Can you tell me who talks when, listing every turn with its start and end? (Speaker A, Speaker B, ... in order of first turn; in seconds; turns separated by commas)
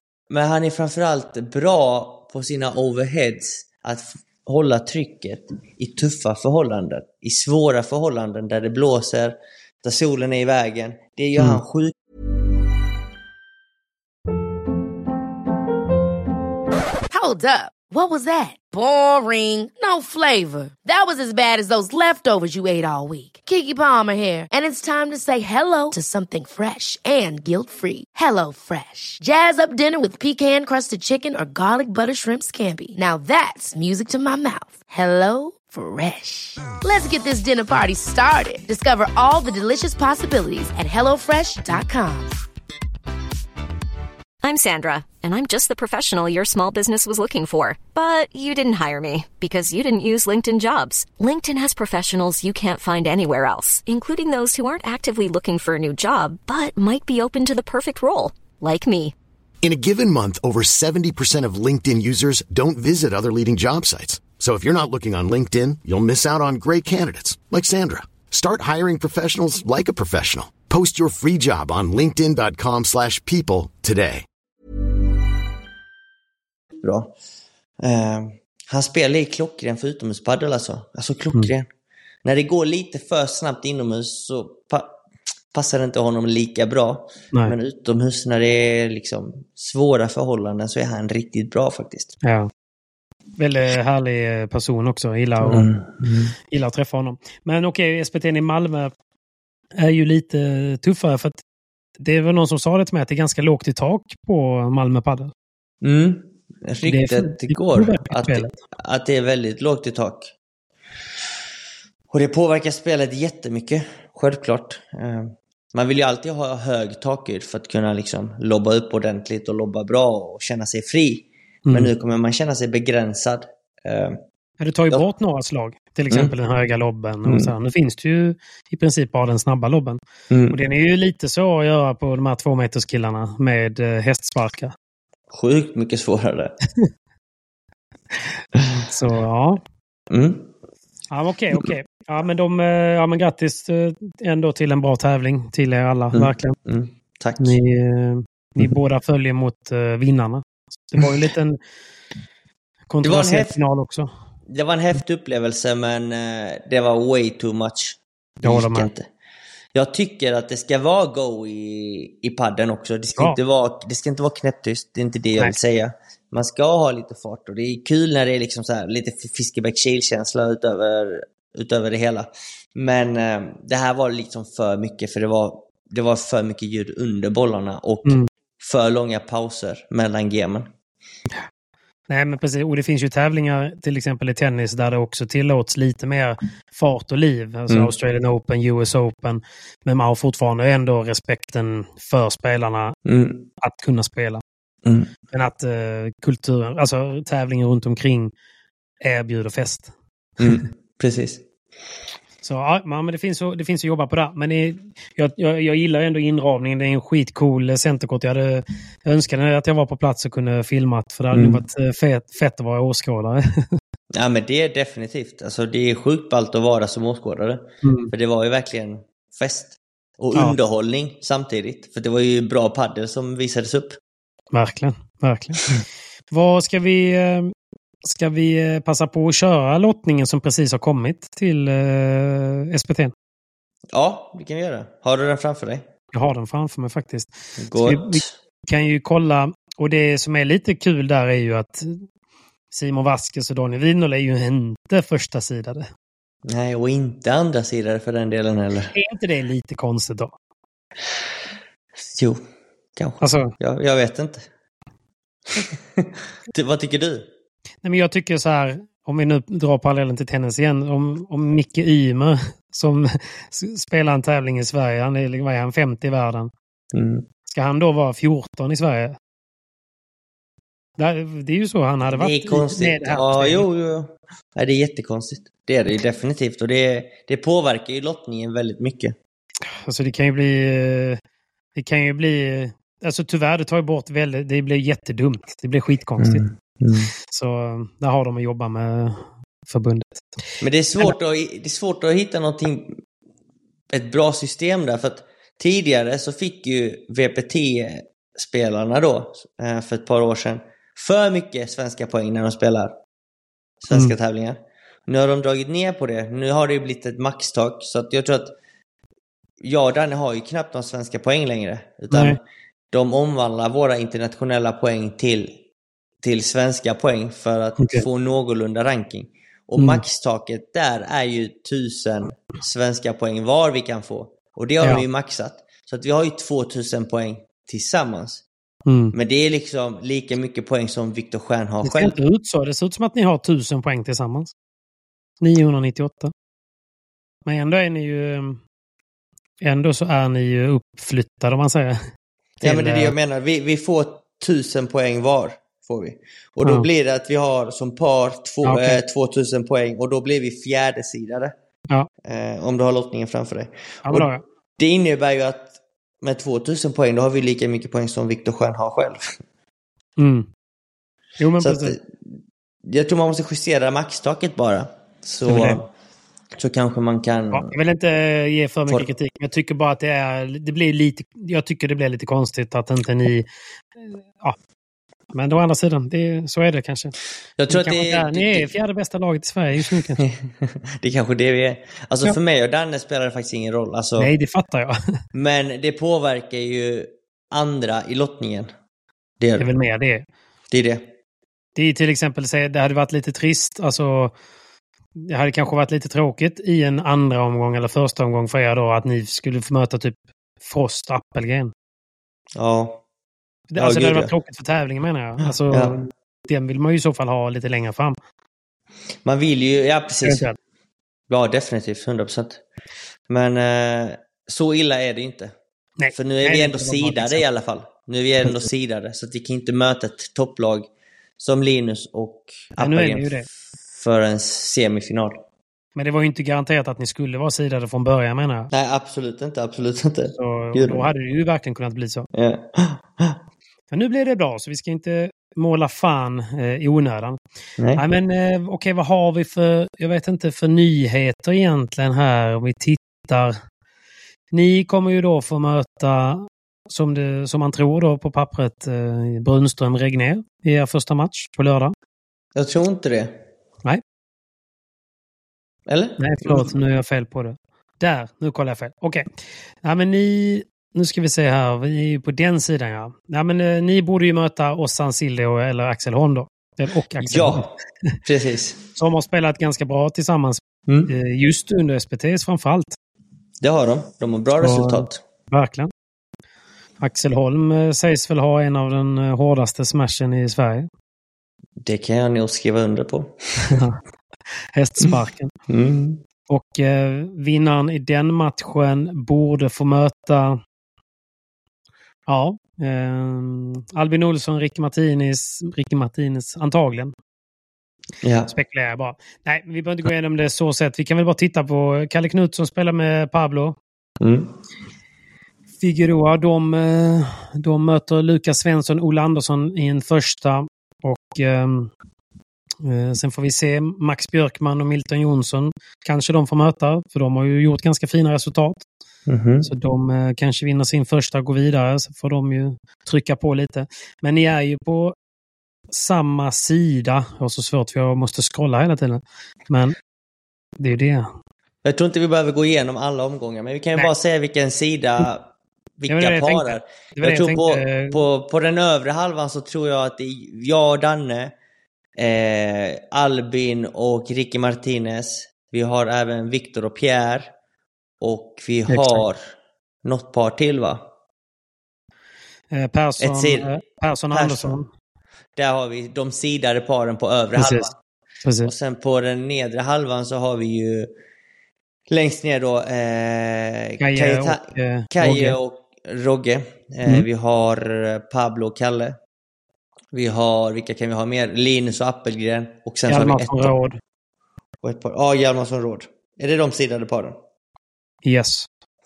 Speaker A: 0.3-11.9, Speaker B: 17.1-42.3, Speaker C: 44.4-59.1, Speaker D: 59.6-74.2, Speaker A: 76.8-77.1, Speaker A: 77.8-81.7, Speaker A: 82.2-85.0, Speaker A: 85.5-92.2, Speaker E: 92.2-92.5, Speaker E: 93.4-95.7, Speaker A: 95.4-96.3, Speaker E: 96.5-98.9, Speaker E: 99.8-101.4, Speaker E: 102.0-105.3, Speaker A: 105.8-110.3, Speaker E: 106.8-108.5, Speaker A: 112.1-124.2, Speaker E: 121.7-121.9, Speaker E: 124.6-130.0, Speaker A: 127.2-127.5, Speaker A: 130.3-130.6, Speaker E: 130.5-134.8, Speaker A: 135.3-136.6, Speaker A: 138.6-138.9, Speaker E: 138.8-139.6, Speaker A: 140.1-140.5, Speaker E: 141.1-146.6, Speaker A: 146.1-147.6, Speaker E: 147.4-151.6, Speaker E: 152.9-154.1, Speaker A: 153.0-153.6, Speaker A: 154.5-159.1, Speaker E: 158.4-158.9, Speaker A: 159.8-180.7, Speaker E: 182.1-192.9, Speaker A: 193.1-193.5, Speaker E: 193.6-194.4, Speaker A: 194.8-195.1, Speaker E: 195.3-198.3, Speaker E: 199.0-199.9, Speaker A: 200.4-201.4, Speaker E: 202.4-213.8, Speaker A: 211.3-211.6, Speaker A: 214.1-224.0, Speaker E: 217.8-218.1, Speaker E: 224.5-225.7, Speaker E: 226.3-233.1, Speaker A: 233.9-235.9, Speaker E: 236.1-242.0, Speaker A: 237.6-238.3, Speaker E: 242.7-245.9, Speaker A: 246.5-248.9, Speaker E: 248.9-250.3, Speaker A: 252.0-252.4, Speaker A: 253.0-254.5, Speaker E: 253.2-253.5, Speaker A: 255.5-257.3, Speaker E: 257.8-266.5, Speaker A: 266.9-267.2, Speaker E: 267.5-269.2, Speaker E: 271.0-273.6, Speaker A: 272.1-279.1, Speaker E: 279.9-281.2, Speaker E: 281.8-286.4, Speaker A: 286.2-287.1, Speaker E: 287.3-290.3, Speaker A: 290.6-293.0, Speaker A: 293.9-302.9, Speaker A: 303.8-308.6, Speaker A: 309.6-312.4, Speaker E: 312.1-312.4, Speaker A: 312.9-315.6, Speaker A: 316.2-328.4, Speaker E: 317.8-318.1, Speaker E: 319.8-320.0, Speaker E: 328.9-329.1, Speaker A: 329.1-332.2, Speaker E: 331.8-334.5, Speaker E: 335.4-336.3, Speaker E: 337.5-338.6, Speaker E: 339.6-342.0, Speaker A: 342.6-351.5, Speaker E: 342.6-343.1, Speaker E: 348.6-349.0, Speaker A: 352.2-359.4, Speaker E: 354.1-354.4, Speaker E: 360.2-360.5, Speaker E: 361.4-362.0, Speaker A: 361.6-362.1, Speaker A: 362.9-365.9, Speaker E: 365.5-365.8, Speaker A: 366.6-367.8, Speaker E: 367.5-373.5, Speaker E: 374.0-374.6, Speaker E: 375.3-377.1, Speaker A: 377.6-378.7, Speaker E: 377.7-380.2, Speaker A: 380.2-384.3, Speaker E: 384.2-385.0, Speaker A: 385.3-388.7, Speaker A: 389.4-389.7, Speaker E: 389.6-390.3, Speaker A: 390.7-391.1, Speaker E: 391.8-394.3, Speaker E: 395.2-401.7, Speaker A: 402.6-403.0, Speaker E: 403.7-408.2, Speaker A: 403.8-404.3, Speaker A: 405.7-406.0, Speaker A: 409.2-410.4, Speaker E: 410.2-410.6, Speaker A: 411.3-412.6, Speaker A: 413.3-415.5, Speaker E: 416.0-417.4, Speaker A: 416.1-420.9, Speaker A: 421.4-425.4, Speaker E: 422.8-423.5, Speaker E: 426.0-428.7, Speaker A: 428.7-431.1, Speaker E: 430.3-432.3, Speaker A: 432.3-433.4, Speaker E: 433.9-437.4, Speaker A: 437.8-438.0, Speaker E: 438.0-443.6, Speaker E: 444.5-451.9, Speaker A: 452.6-453.4, Speaker A: 455.9-456.7, Speaker E: 456.2-459.3, Speaker E: 459.8-468.2, Speaker A: 467.2-468.8, Speaker E: 469.0-473.0, Speaker A: 470.9-471.1, Speaker A: 473.6-475.2, Speaker E: 474.6-475.9, Speaker E: 477.0-480.9, Speaker A: 481.8-483.8, Speaker E: 483.7-484.0, Speaker E: 484.7-485.5, Speaker A: 485.7-486.2, Speaker E: 486.5-490.6, Speaker E: 492.3-497.1, Speaker A: 498.2-498.5, Speaker E: 498.5-503.8, Speaker A: 504.2-504.6, Speaker E: 505.8-511.9, Speaker E: 512.8-518.9, Speaker A: 519.3-519.7, Speaker E: 519.6-525.1, Speaker E: 525.9-530.0, Speaker E: 530.8-531.3, Speaker A: 531.8-535.5, Speaker A: 536.0-541.5, Speaker E: 536.1-538.2, Speaker A: 542.2-547.5, Speaker A: 548.2-549.4, Speaker E: 548.9-549.2, Speaker A: 550.0-551.0, Speaker E: 552.7-554.9, Speaker A: 553.2-553.7, Speaker A: 554.3-554.7, Speaker A: 555.6-558.0, Speaker E: 557.6-557.9, Speaker E: 558.4-558.7, Speaker A: 558.6-561.1, Speaker A: 562.1-569.2, Speaker E: 564.0-565.6, Speaker A: 570.1-573.8, Speaker E: 573.1-574.0, Speaker A: 574.8-577.4, Speaker E: 578.2-578.7